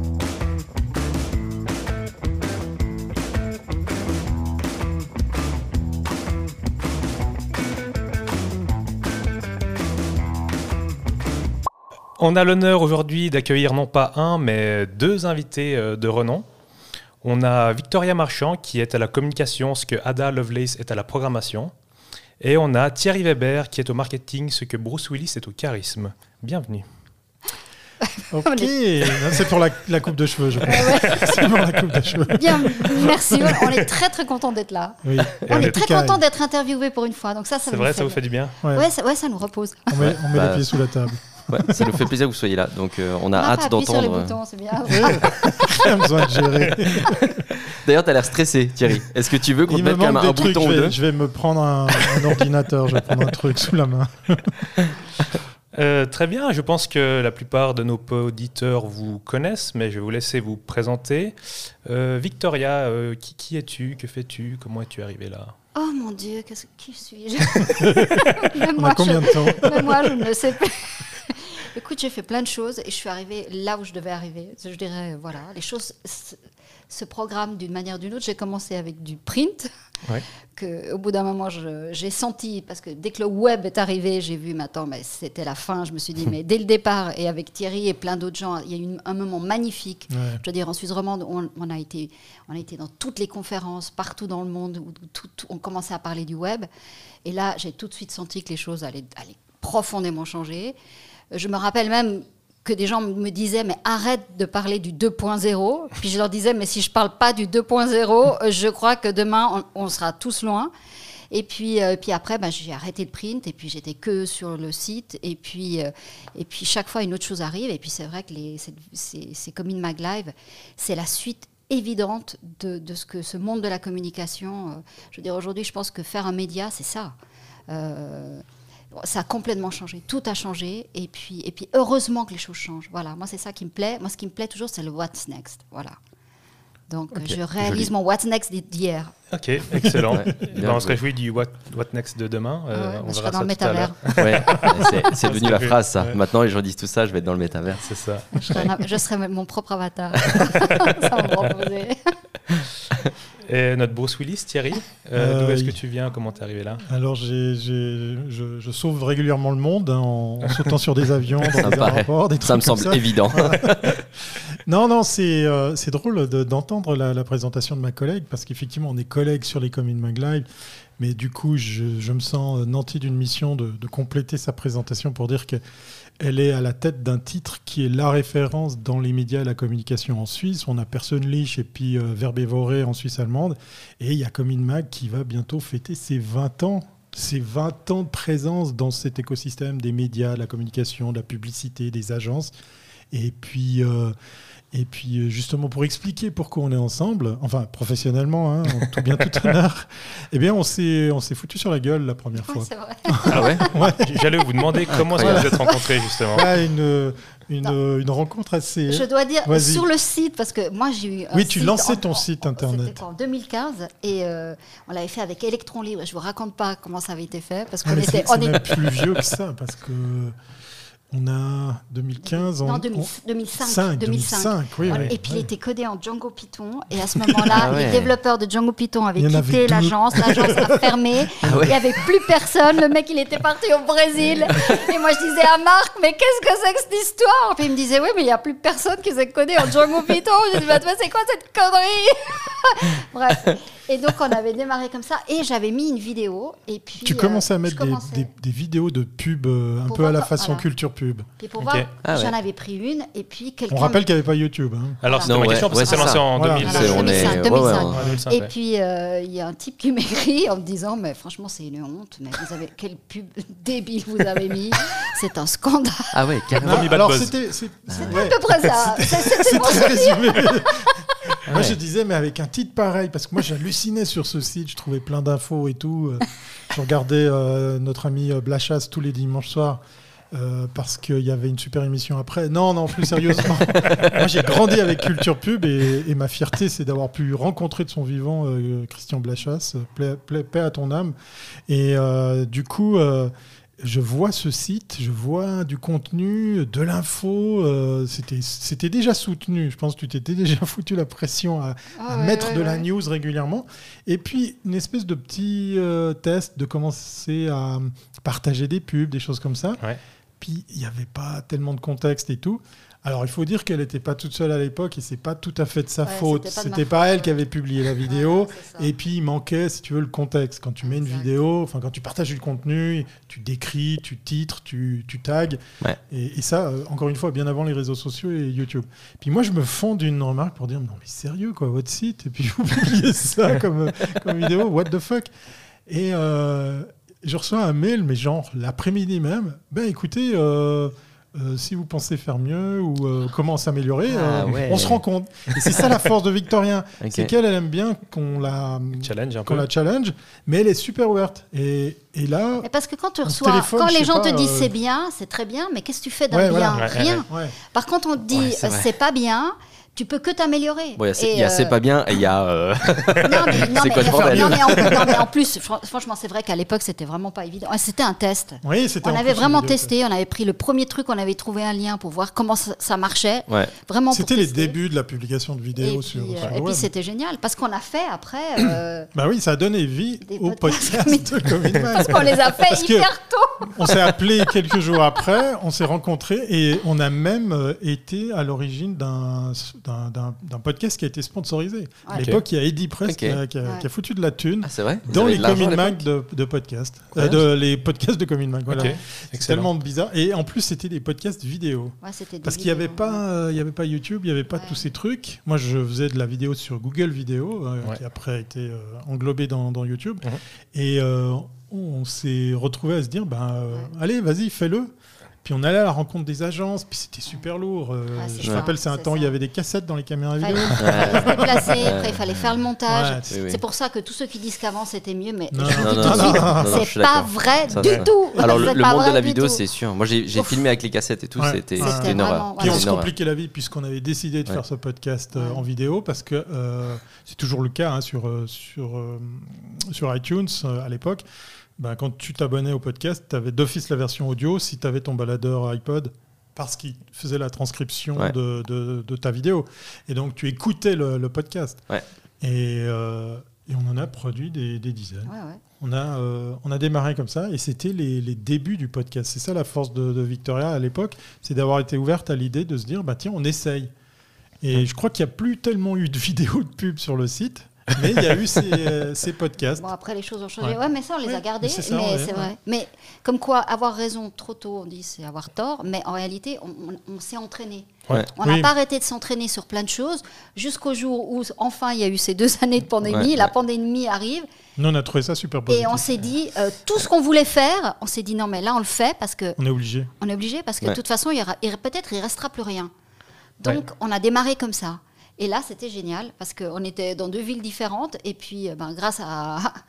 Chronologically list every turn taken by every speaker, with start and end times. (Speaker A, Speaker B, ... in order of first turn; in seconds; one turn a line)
Speaker A: 12.2-16.5
Speaker A: 17.2-21.7
Speaker A: 22.4-26.9
Speaker B: 28.1-29.4
Speaker C: 28.3-33.6
Speaker B: 30.7-31.4
Speaker B: 32.3-40.0
Speaker C: 35.0-36.2
Speaker A: 35.5-35.8
Speaker A: 37.7-38.6
Speaker C: 39.9-42.1
Speaker D: 40.0-40.7
Speaker D: 41.5-44.4
Speaker B: 43.4-45.8
Speaker C: 44.9-47.4
Speaker D: 47.7-51.0
Speaker C: 49.7-54.5
Speaker A: 55.7-65.5
Speaker B: 65.8-76.4
Speaker C: 67.6-70.3
Speaker B: 76.9-79.7
Speaker B: 80.5-96.7
Speaker C: 90.1-90.4
Speaker B: 97.2-100.8
Speaker B: 101.3-110.7
Speaker B: 111.3-127.1
Speaker B: 127.7-136.0
Speaker B: 136.9-139.1
Speaker D: 137.2-137.9
Speaker A: 139.3-146.2
Speaker C: 139.8-140.2
Speaker D: 140.1-141.0
Speaker B: 142.7-144.2
Speaker D: 144.2-147.8
Speaker A: 147.8-148.7
Speaker B: 148.3-152.2
Speaker A: 150.4-150.9
Speaker A: 153.5-156.8
Speaker C: 155.2-155.8
Speaker C: 156.8-170.5
Speaker D: 161.4-164.0
Speaker C: 171.0-175.6
Speaker C: 176.2-192.5
Speaker C: 193.1-194.2
Speaker C: 194.7-204.1
Speaker B: 202.4-203.7
Speaker D: 203.3-203.7
Speaker A: 203.3-206.5
Speaker D: 204.9-205.4
Speaker C: 205.2-205.6
Speaker B: 205.4-205.9
Speaker C: 206.3-209.8
Speaker B: 208.9-219.1
Speaker C: 211.3-213.0
Speaker C: 217.8-220.4
Speaker C: 221.1-223.1
Speaker B: 222.2-248.3
Speaker C: 223.6-225.5
Speaker D: 227.5-228.1
Speaker C: 229.2-231.9
Speaker D: 231.4-231.7
Speaker C: 247.0-251.3
Speaker B: 249.9-250.7
Speaker B: 251.4-254.0
Speaker A: 251.6-251.9
Speaker D: 252.0-252.3
Speaker C: 253.7-255.0
Speaker A: 255.0-258.5
Speaker B: 255.1-266.1
Speaker D: 255.3-258.0
Speaker C: 256.3-257.2
Speaker C: 257.9-258.2
Speaker D: 266.1-267.0
Speaker C: 266.6-279.8
Speaker A: 266.6-267.3
Speaker D: 267.9-268.3
Speaker B: 267.9-271.1
Speaker A: 271.5-271.8
Speaker C: 280.3-291.1
Speaker C: 291.7-309.8
Speaker B: 302.0-302.8
Speaker C: 310.4-335.3
Speaker B: 316.0-317.4
Speaker B: 318.0-318.9
Speaker B: 320.8-321.3
Speaker C: 335.9-352.6
Speaker D: 344.1-345.0
Speaker D: 347.0-347.3
Speaker A: 349.0-349.7
Speaker B: 352.6-361.8
Speaker C: 353.2-354.7
Speaker C: 356.3-357.5
Speaker A: 356.7-357.2
Speaker D: 358.3-358.9
Speaker D: 361.0-365.0
Speaker B: 363.2-374.8
Speaker C: 363.9-365.2
Speaker C: 368.6-369.9
Speaker C: 374.1-376.9
Speaker B: 375.8-379.1
Speaker C: 379.1-383.1
Speaker B: 380.2-384.0
Speaker C: 383.6-414.9
Speaker A: 392.1-392.4
Speaker D: 393.1-393.4
Speaker D: 394.6-396.0
Speaker A: 398.7-399.7
Speaker B: 402.0-403.2
Speaker C: 415.4-421.7
Speaker B: 418.1-419.3
Speaker D: 418.4-418.7
Speaker B: 420.4-429.6
Speaker D: 420.8-422.5
Speaker C: 422.9-423.4
Speaker D: 423.3-423.6
Speaker C: 425.5-426.8
Speaker D: 425.8-433.1
Speaker C: 427.8-428.7
Speaker B: 430.3-430.6
Speaker C: 431.4-441.2
Speaker B: 431.8-432.9
Speaker B: 435.3-435.6
Speaker C: 441.8-451.9
Speaker C: 452.4-463.9
Speaker B: 455.2-455.6
Speaker C: 464.6-469.9
Speaker B: 469.8-484.5
Speaker C: 470.6-472.5
Speaker C: 478.4-478.7
Speaker D: 483.1-483.5
Speaker C: 484.8-486.1
Speaker B: 485.7-489.6
Speaker C: 489.6-490.1
Speaker B: 490.2-492.9
Speaker B: 493.6-499.8